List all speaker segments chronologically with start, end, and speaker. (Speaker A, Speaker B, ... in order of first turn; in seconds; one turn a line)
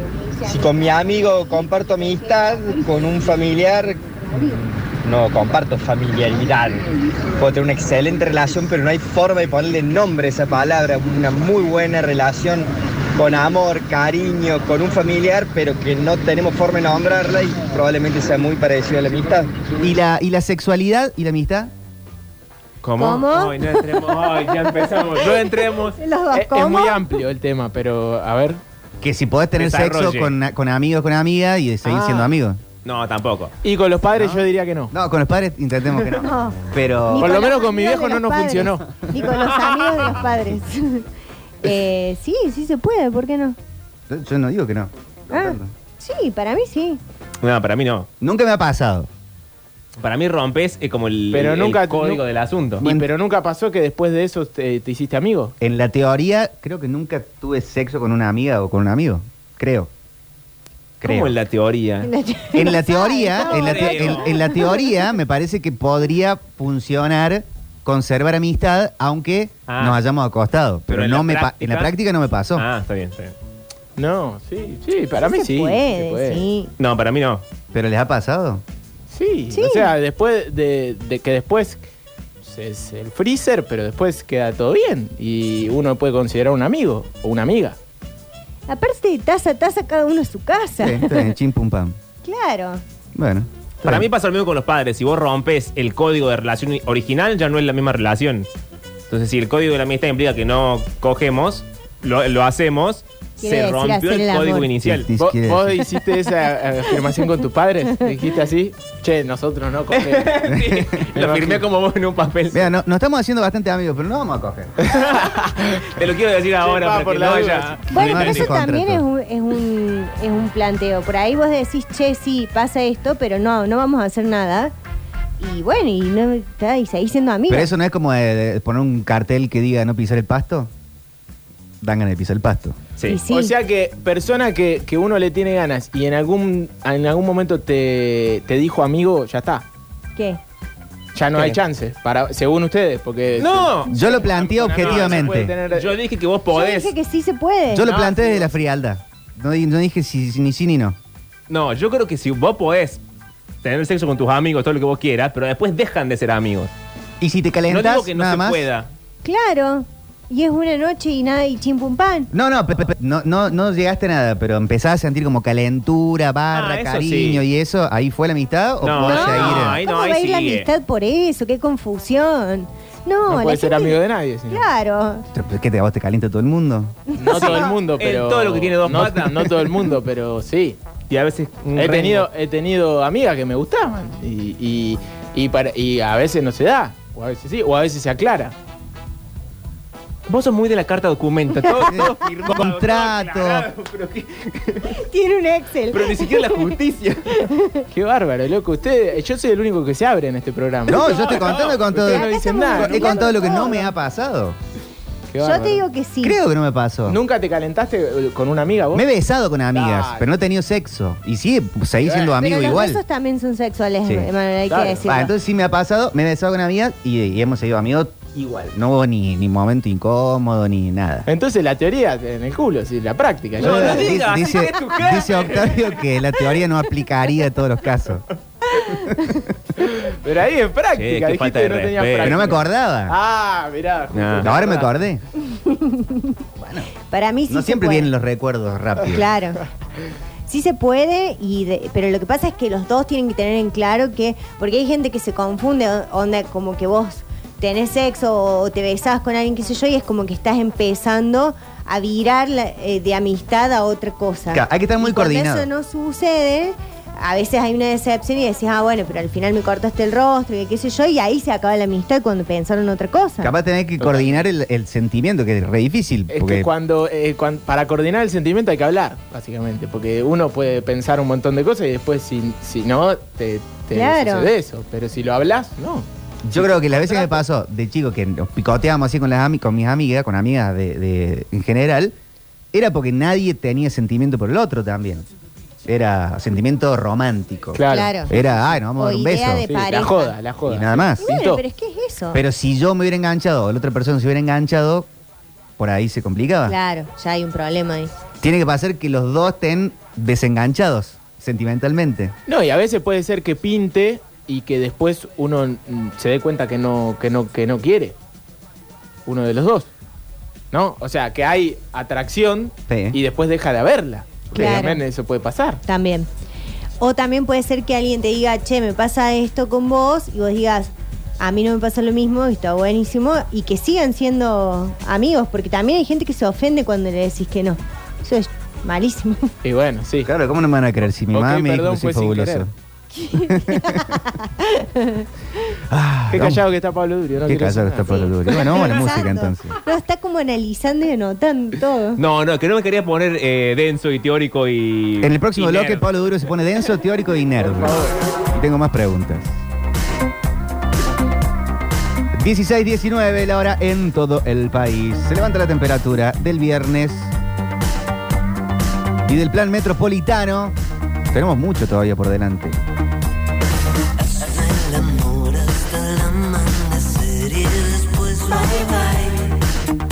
Speaker A: 0.4-19.6
Speaker B: 19.8-21.7
Speaker C: 22.8-26.0
Speaker D: 23.0-24.1
Speaker D: 25.1-27.2
Speaker E: 26.3-28.6
Speaker B: 29.0-32.6
Speaker C: 29.6-30.3
Speaker D: 31.8-32.3
Speaker C: 32.8-33.5
Speaker E: 33.6-34.9
Speaker B: 34.1-37.4
Speaker D: 36.2-41.0
Speaker E: 37.2-38.9
Speaker D: 41.6-43.6
Speaker B: 44.1-45.7
Speaker D: 45.3-47.0
Speaker C: 47.4-48.1
Speaker B: 48.2-49.1
Speaker C: 50.0-52.9
Speaker E: 51.3-52.2
Speaker E: 52.8-55.5
Speaker B: 52.8-53.1
Speaker B: 55.6-59.9
Speaker B: 61.0-61.4
Speaker C: 61.0-62.1
Speaker D: 62.0-64.9
Speaker B: 62.5-72.7
Speaker C: 63.4-64.3
Speaker C: 69.7-70.0
Speaker C: 70.9-71.9
Speaker C: 72.5-73.3
Speaker E: 74.0-76.4
Speaker D: 75.2-76.7
Speaker C: 76.8-77.4
Speaker B: 77.7-78.6
Speaker E: 79.1-81.8
Speaker D: 79.5-79.9
Speaker E: 82.4-87.8
Speaker D: 88.7-91.3
Speaker B: 90.8-92.0
Speaker D: 92.2-92.8
Speaker B: 93.1-94.1
Speaker C: 93.8-98.5
Speaker C: 99.1-105.1
Speaker D: 103.4-104.7
Speaker B: 104.8-105.9
Speaker E: 105.2-110.5
Speaker C: 109.9-112.6
Speaker B: 110.5-111.1
Speaker E: 111.1-111.6
Speaker B: 112.5-114.8
Speaker C: 114.9-115.3
Speaker E: 115.2-115.9
Speaker C: 115.8-118.5
Speaker E: 116.6-117.8
Speaker D: 117.9-124.7
Speaker B: 118.0-119.0
Speaker D: 125.4-127.7
Speaker B: 127.5-130.7
Speaker B: 131.8-132.8
Speaker D: 133.1-133.5
Speaker E: 133.3-139.7
Speaker E: 141.1-145.9
Speaker C: 143.4-143.9
Speaker B: 143.9-145.5
Speaker C: 144.7-146.9
Speaker D: 146.5-148.0
Speaker B: 147.7-151.0
Speaker E: 147.8-148.5
Speaker C: 151.5-153.0
Speaker C: 153.6-156.7
Speaker B: 157.2-158.7
Speaker C: 157.7-158.9
Speaker D: 159.2-162.3
Speaker B: 162.3-169.8
Speaker C: 166.5-167.4
Speaker C: 168.8-170.7
Speaker D: 169.0-175.2
Speaker E: 173.3-174.7
Speaker B: 175.3-177.0
Speaker D: 177.2-177.6
Speaker E: 177.2-180.8
Speaker C: 177.3-179.7
Speaker C: 181.1-182.3
Speaker E: 181.8-188.5
Speaker C: 190.3-195.0
Speaker B: 191.8-193.7
Speaker D: 194.9-196.7
Speaker C: 195.9-197.3
Speaker D: 197.3-197.9
Speaker E: 197.9-203.8
Speaker B: 200.9-204.6
Speaker C: 201.0-201.8
Speaker D: 202.0-203.9
Speaker E: 205.3-205.8
Speaker D: 205.4-206.4
Speaker B: 206.2-207.2
Speaker E: 207.1-209.1
Speaker B: 208.9-213.0
Speaker E: 209.7-210.3
Speaker D: 212.2-215.3
Speaker B: 214.0-214.3
Speaker E: 214.7-215.1
Speaker B: 215.0-221.3
Speaker E: 221.3-224.1
Speaker C: 223.6-226.0
Speaker B: 223.6-228.2
Speaker D: 228.8-229.4
Speaker E: 229.8-234.9
Speaker C: 230.9-232.5
Speaker B: 232.2-233.2
Speaker C: 234.1-234.5
Speaker B: 234.4-235.2
Speaker D: 235.4-236.3
Speaker B: 236.6-236.9
Speaker D: 237.1-238.1
Speaker B: 237.5-239.3
Speaker D: 239.1-239.6
Speaker D: 240.5-263.5
Speaker B: 254.5-255.7
Speaker B: 263.4-266.7
Speaker E: 264.0-264.4
Speaker E: 266.3-277.4
Speaker D: 273.9-274.5
Speaker B: 276.4-282.1
Speaker B: 282.7-285.2
Speaker B: 285.9-289.7
Speaker E: 287.7-288.2
Speaker D: 287.9-288.3
Speaker D: 288.9-290.4
Speaker E: 289.6-291.6
Speaker B: 290.6-291.2
Speaker D: 291.2-292.4
Speaker B: 292.3-295.1
Speaker B: 295.8-296.7
Speaker D: 296.6-298.1
Speaker B: 298.4-302.3
Speaker E: 302.5-308.1
Speaker E: 309.2-309.9
Speaker E: 310.7-315.8
Speaker B: 312.9-313.2
Speaker D: 314.5-315.0
Speaker D: 315.9-316.3
Speaker D: 317.0-329.5
Speaker E: 329.6-330.3
Speaker B: 330.2-332.7
Speaker E: 331.3-332.7
Speaker D: 333.1-335.3
Speaker B: 333.4-334.1
Speaker B: 335.9-336.6
Speaker E: 336.3-338.1
Speaker B: 337.4-339.8
Speaker D: 338.1-342.2
Speaker C: 342.2-346.0
Speaker B: 345.2-349.6
Speaker E: 347.6-348.3
Speaker B: 352.3-357.3
Speaker B: 359.3-360.7
Speaker B: 361.3-362.8
Speaker F: 364.2-369.6